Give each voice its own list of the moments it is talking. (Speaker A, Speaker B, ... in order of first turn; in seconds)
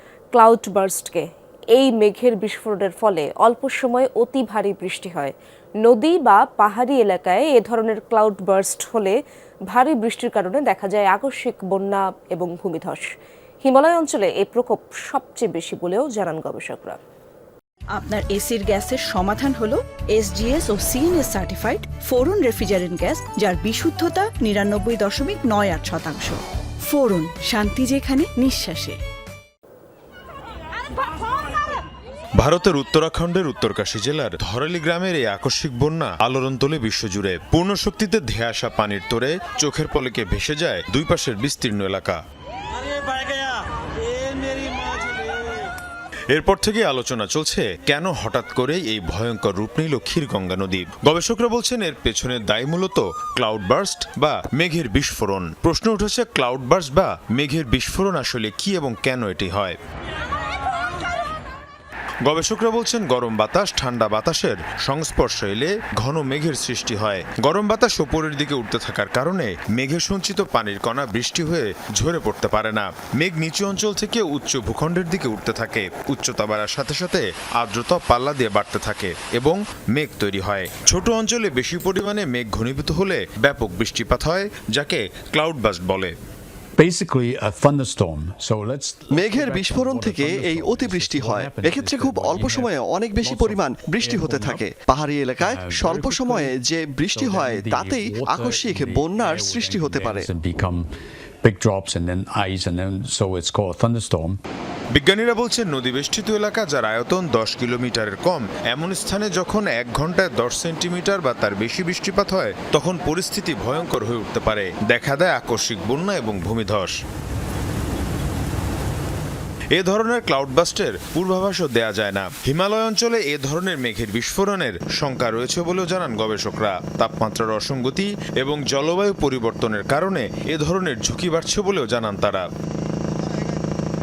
Speaker A: 0.3-9.2, 9.7-13.1, 13.6-17.0
Speaker B: 17.9-29.0
Speaker C: 32.4-42.2, 46.3-59.8, 62.2-86.1, 104.9-116.9, 119.7-132.4
Speaker D: 86.8-94.6, 95.4-96.5, 97.1-100.9, 101.4-104.4
Speaker E: 89.1-100.3